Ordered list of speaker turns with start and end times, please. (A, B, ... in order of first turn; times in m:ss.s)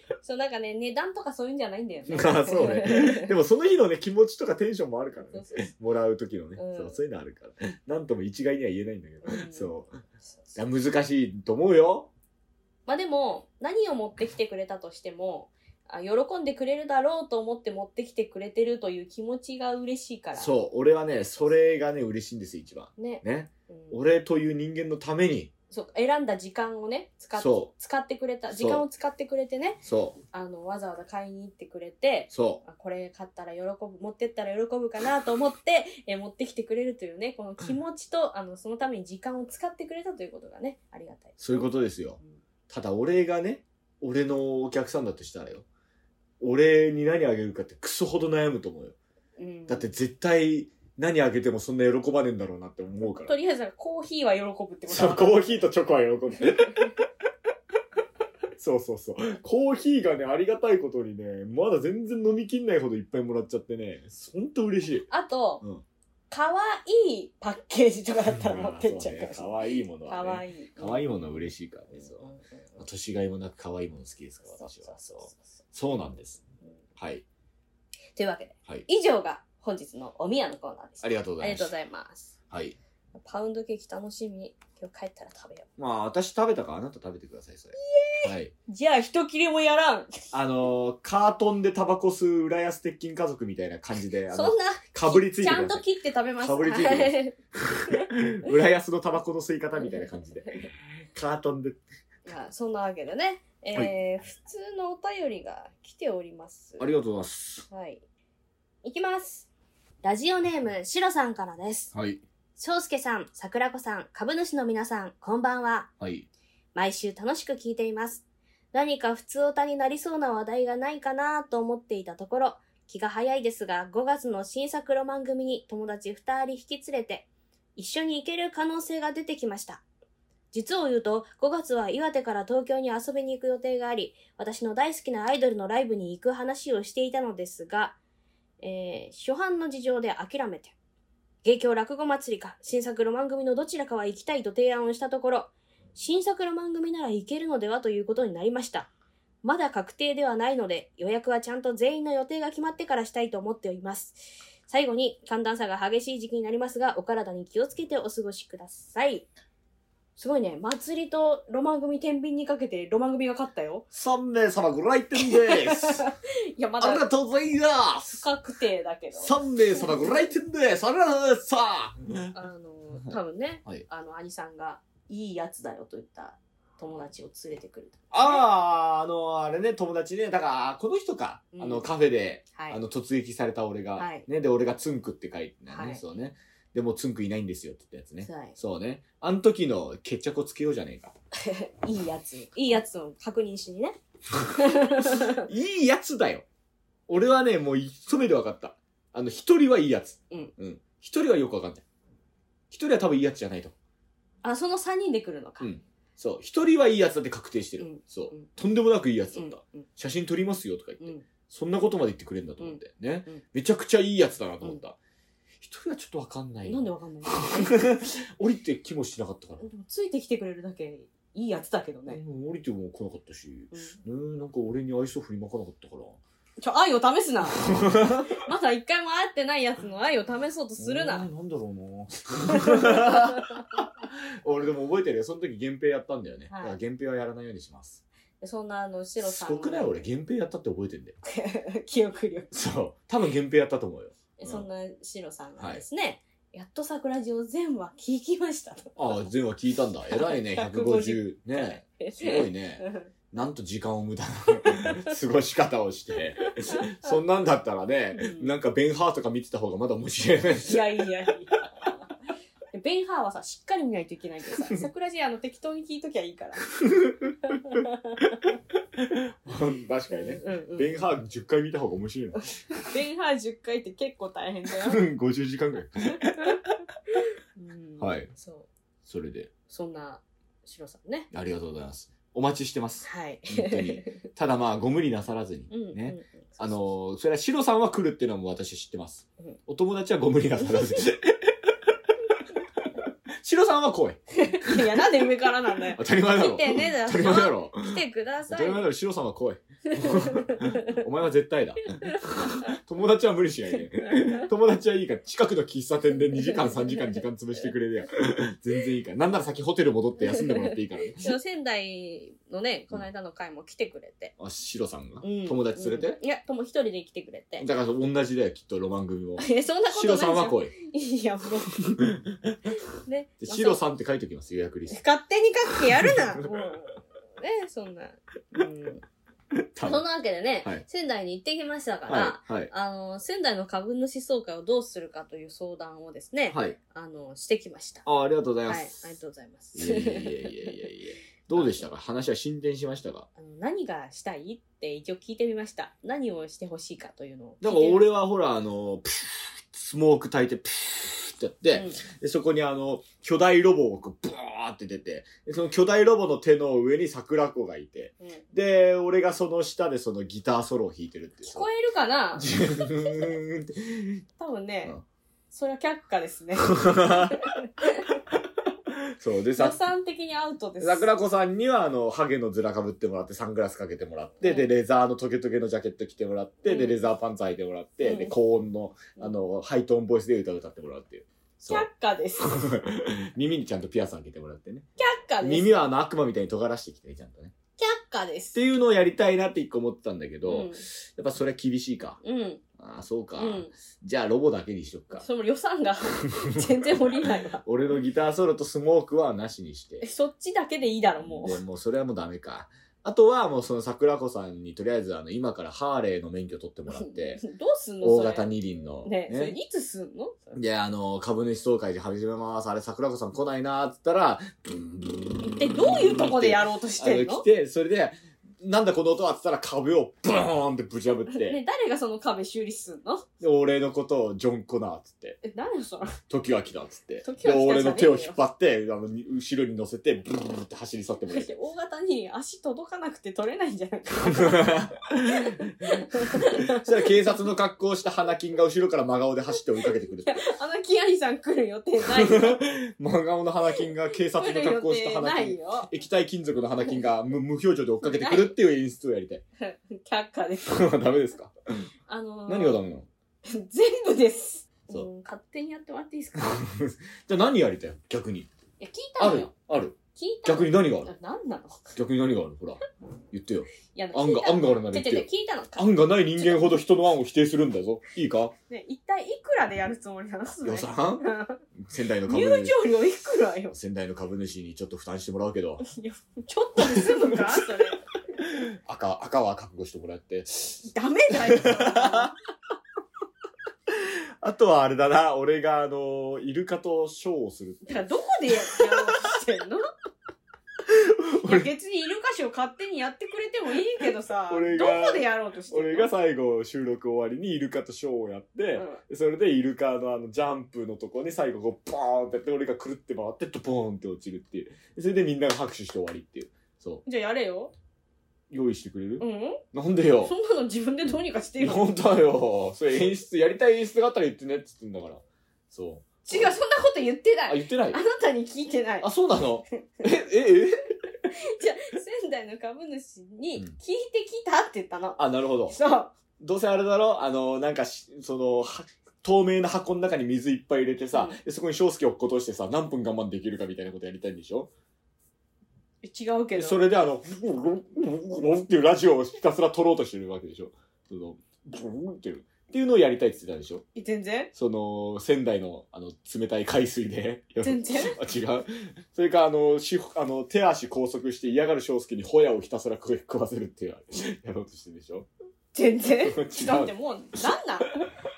0:00.2-0:03.3 A
0:02.1-0:09.9 B
0:05.3-0:05.7 A
0:06.6-0:07.0 A
0:09.2-0:09.7 A
0:10.3-0:10.5 A
0:10.5-0:12.1 B
0:12.9-0:20.5 A
0:20.4-0:25.5 B
0:23.0-0:24.0 A
0:25.7-0:29.8 A
0:27.4-0:27.7 B
0:28.5-0:28.8 B
0:29.8-0:30.2 B
0:30.3-0:41.7 A
0:32.3-0:32.6 B
0:41.4-0:45.6 B
0:46.4-0:49.0 B
0:49.4-0:49.9 A
0:49.7-0:53.3 B
0:53.2-0:55.6 A
0:54.9-0:56.9 B
0:58.6-1:05.1 B
1:05.1-1:05.6 A
1:06.3-1:09.5 A
1:08.3-1:16.4 B
1:10.1-1:11.2 A
1:11.9-1:12.8 A
1:14.5-1:15.5 A
1:17.0-1:17.2 B
1:18.2-1:22.3 A
1:21.0-1:21.7 B
1:22.5-1:22.8 B
1:23.2-1:25.7 A
1:25.8-1:28.5 B
1:27.8-1:30.2 A
1:30.3-1:35.8 B
1:34.3-1:37.3 A
1:36.4-1:41.8 B
1:39.8-1:40.7 A
1:42.2-1:46.9 A
1:46.8-1:47.6 B
1:47.7-1:48.0 A
1:48.8-1:49.5 A
1:50.0-1:51.9 A
1:51.9-1:52.2 B
1:52.6-1:55.9 A
1:56.0-1:56.3 B
1:56.7-2:09.8 A
2:10.5-2:18.0 A
2:18.6-2:20.7 A
2:21.4-2:28.9 A
2:29.4-2:39.3 A
2:40.2-2:43.8 A
2:43.9-2:46.0 B
2:45.2-2:47.0 A
2:46.8-2:48.2 B
2:48.0-2:49.8 A
2:49.1-2:52.3 B
2:52.3-2:58.4 A
2:58.1-3:11.1 B
3:01.5-3:01.9 A
3:02.5-3:02.8 A
3:04.0-3:04.3 A
3:05.7-3:06.0 A
3:08.2-3:08.6 A
3:11.4-3:14.0 A
3:14.5-3:15.4 A
3:15.0-3:16.4 B
3:17.1-3:21.8 B
3:22.7-3:23.7 B
3:24.4-3:25.7 A
3:25.6-3:35.0 B
3:27.8-3:28.5 A
3:29.3-3:29.9 A
3:31.0-3:31.2 A
3:32.6-3:33.4 A
3:35.6-3:39.6 B
3:36.6-3:38.0 A
3:39.6-3:42.2 A
3:42.1-3:46.2 B
3:43.7-3:44.0 A
3:46.6-3:51.3 A
3:47.6-3:48.3 B
3:50.8-3:58.0 B
3:52.5-3:53.2 A
3:56.5-3:56.8 A
3:58.4-4:00.0 A
3:59.2-4:01.2 B
4:01.2-4:02.5 A
4:02.5-4:04.6 B
4:04.4-4:09.2 A
4:09.0-4:20.9 B
4:10.1-4:13.1 A
4:14.6-4:15.0 A
4:16.4-4:17.2 A
4:18.1-4:18.5 A
4:20.6-4:22.0 A
4:22.7-4:26.6 A
4:26.8-4:27.3 B
4:27.5-4:28.2 A
4:29.0-4:32.8 B
4:30.1-4:31.0 A
4:32.8-4:35.0 A
4:34.7-4:36.5 B
4:37.6-4:38.7 A
4:38.0-4:38.3 B
4:39.0-4:39.5 B
4:39.7-4:41.3 A
4:41.3-4:51.5 B
4:43.0-4:44.2 A
4:45.7-4:46.9 A
4:53.4-4:54.9 B
4:54.4-4:58.8 A
4:55.9-5:11.4 B
4:59.9-5:01.0 A
5:02.0-5:02.3 A
5:04.0-5:04.4 A
5:06.4-5:07.2 A
5:11.2-5:14.3 A
5:14.4-5:16.2 B
5:15.2-5:17.7 A
5:17.6-5:20.7 B
5:19.4-5:21.9 A
5:21.9-5:22.7 B
5:23.0-5:23.8 A
5:23.4-5:25.0 B
5:24.9-5:29.0 A
5:25.7-5:26.7 B
5:29.6-5:30.1 B
5:29.8-5:38.0 A
5:32.1-5:32.7 B
5:36.5-5:36.8 B
5:38.0-5:39.1 B
5:38.7-5:40.8 A
5:39.7-5:43.3 B
5:41.5-5:41.9 A
5:43.4-5:48.1 A
5:47.6-6:01.6 B
5:51.7-5:52.0 A
6:01.4-6:02.6 A
6:02.3-6:04.2 B
6:04.4-6:05.0 A
6:05.5-6:07.7 A
6:06.6-6:07.4 B
6:08.9-6:09.8 B
6:09.6-6:11.1 A
6:10.8-6:24.9 B
6:14.4-6:14.7 A
6:16.6-6:17.0 A
6:18.0-6:18.3 A
6:21.6-6:22.6 A
6:25.0-6:25.9 A
6:25.4-6:27.5 B
6:27.8-6:28.6 A
6:28.5-6:32.2 B
6:30.4-6:30.8 A
6:32.2-6:32.6 A
6:32.8-6:35.2 B
6:33.4-6:33.7 A
6:35.1-6:37.6 A
6:37.6-6:40.0 B
6:40.0-6:41.6 A
6:41.2-6:47.4 B
6:47.0-6:48.5 A
6:48.0-6:49.6 B
6:49.0-6:50.6 A
6:50.5-7:01.6 B
6:55.4-6:57.4 A
7:01.3-7:03.3 A
7:03.4-7:05.4 B
7:05.4-7:06.2 A
7:06.3-7:11.5 B
7:07.2-7:08.4 A
7:11.3-7:14.8 A
7:14.2-7:20.4 B
7:15.4-7:17.1 A
7:20.3-7:22.6 A
7:22.0-7:29.4 B
7:24.3-7:25.9 A
7:28.0-7:28.6 A
7:29.6-7:30.8 A
7:30.6-7:31.8 B
7:32.1-7:32.8 A
7:32.5-7:33.1 B
7:33.5-7:36.6 A
7:36.4-7:38.5 B
7:38.8-7:39.5 A
7:39.2-7:41.1 B
7:40.1-7:42.0 A
7:41.9-7:48.5 B
7:43.9-7:46.8 A
7:48.7-7:51.6 A
7:50.5-7:52.8 B
7:52.3-7:53.7 A
7:53.7-7:55.8 B
7:55.8-7:58.0 A
7:56.8-7:57.8 B
7:58.4-8:02.3 B
8:00.8-8:02.3 A
8:03.9-8:08.0 B
8:07.8-8:09.9 A
8:08.7-8:09.2 B
8:10.9-8:11.7 B
8:11.4-8:16.1 A
8:14.5-8:27.0 B
8:18.7-8:19.0 A
8:27.0-8:27.7 A
8:28.5-8:30.3 B
8:29.2-8:29.6 A
8:30.2-8:31.9 A
8:31.6-8:36.1 B
8:36.2-8:39.1 A
8:37.5-8:38.0 B
8:39.0-8:40.9 B
8:41.3-8:46.1 A
8:45.2-8:45.8 B
8:46.4-8:54.7 B
8:51.1-8:51.4 A
8:56.0-8:56.8 A
8:56.5-9:03.8 B
9:03.9-9:04.5 A
9:04.5-9:15.3 B
9:07.6-9:08.2 A
9:15.7-9:18.0 A
9:16.2-9:16.9 B